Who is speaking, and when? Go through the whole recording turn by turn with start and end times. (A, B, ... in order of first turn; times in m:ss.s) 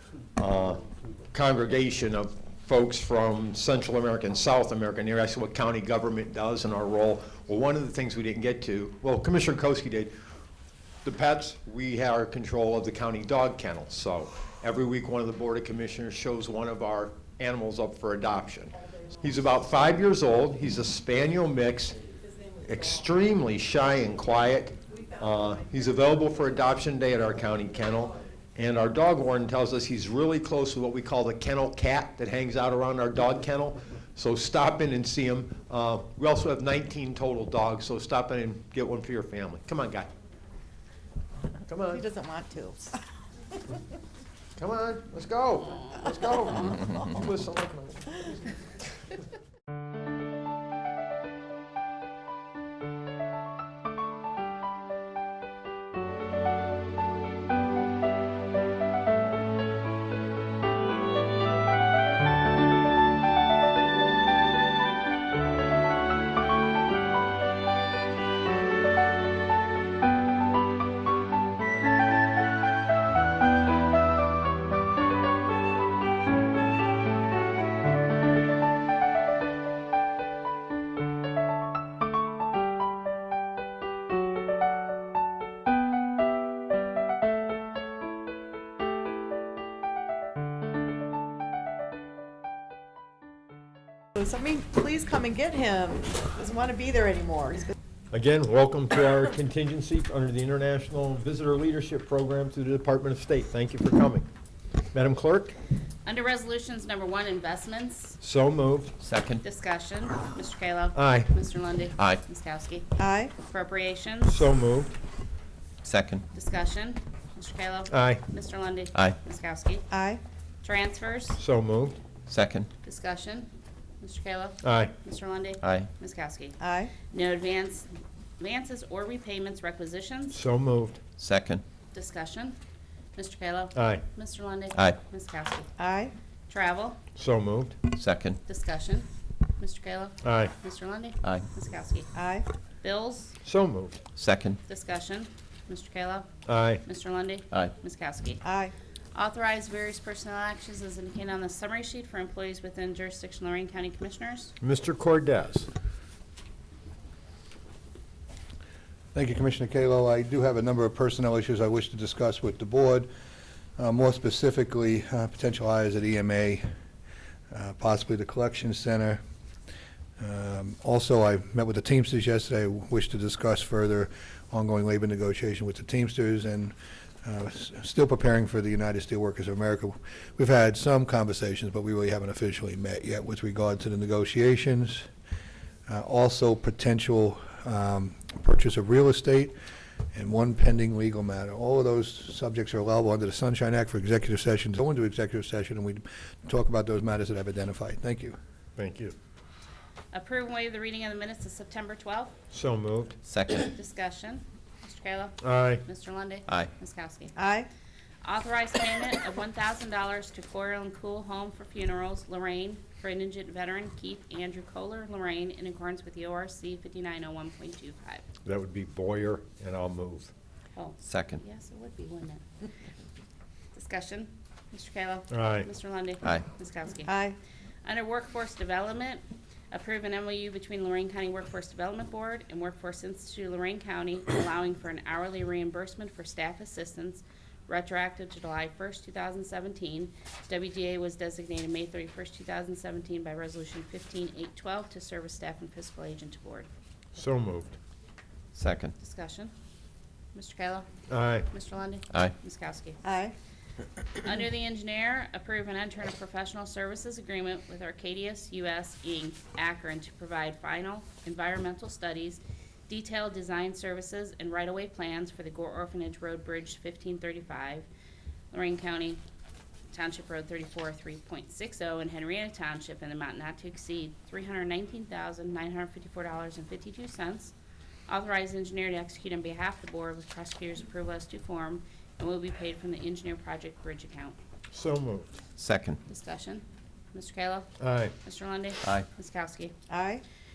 0:00.4-0:10.2 A
0:11.0-0:22.0 A
0:22.6-0:40.1 A
0:41.7-0:42.0 A
0:41.9-0:43.0 B
0:44.6-0:48.3 A
1:34.2-1:37.7 B
1:38.1-1:44.3 A
1:44.9-1:45.6 A
1:46.1-1:48.2 C
1:48.2-1:49.0 A
1:49.0-1:49.4 D
1:49.4-1:54.4 C
1:51.0-1:51.3 A
1:53.0-1:53.3 B
1:54.3-1:54.9 A
1:55.8-1:56.2 D
1:56.3-1:59.9 C
1:57.9-1:58.2 A
1:59.9-2:00.2 B
2:00.6-2:01.4 C
2:01.4-2:02.0 A
2:02.3-2:02.7 D
2:02.8-2:03.5 C
2:04.0-2:10.4 C
2:04.6-2:04.9 A
2:05.6-2:05.9 D
2:06.6-2:06.9 B
2:10.3-2:11.0 A
2:11.2-2:11.6 D
2:11.9-2:12.6 C
2:13.2-2:15.7 C
2:13.8-2:14.0 A
2:14.8-2:15.0 D
2:15.8-2:16.1 B
2:16.5-2:17.0 C
2:17.2-2:17.8 A
2:17.9-2:18.4 D
2:18.5-2:19.1 C
2:19.6-2:22.1 C
2:20.2-2:20.5 A
2:21.2-2:21.5 D
2:22.2-2:22.5 B
2:22.8-2:23.4 C
2:23.4-2:24.0 A
2:24.2-2:24.6 D
2:24.7-2:26.3 C
2:26.5-2:26.8 A
2:26.8-2:28.4 C
2:28.4-2:28.7 B
2:29.2-2:34.5 C
2:34.6-2:35.7 A
2:39.1-2:43.1 E
2:43.8-2:46.7 E
2:47.5-2:49.2 E
2:50.2-3:05.1 E
3:05.9-3:09.5 E
3:10.1-3:18.4 E
3:18.8-3:19.1 A
3:20.1-3:22.4 C
3:22.5-3:23.2 A
3:23.2-3:23.7 D
3:23.6-3:27.4 C
3:25.4-3:25.8 A
3:27.4-3:27.7 B
3:28.2-3:38.2 C
3:38.4-3:40.3 A
3:40.8-3:42.4 C
3:41.0-3:41.4 D
3:43.8-3:47.2 C
3:45.3-3:45.7 A
3:47.1-3:47.4 B
3:47.8-4:06.7 C
4:07.2-4:07.8 A
4:08.6-4:08.9 D
4:09.0-4:09.5 C
4:10.4-4:13.0 C
4:11.1-4:11.5 A
4:13.0-4:13.3 B
4:14.2-4:27.9 C
4:28.5-4:29.2 C
4:29.9-4:37.5 C
4:38.1-4:44.4 C
4:44.7-4:45.3 A
4:45.6-4:46.0 D
4:46.1-4:46.6 C
4:47.1-4:49.7 C
4:47.8-4:48.1 A
4:49.9-4:50.2 B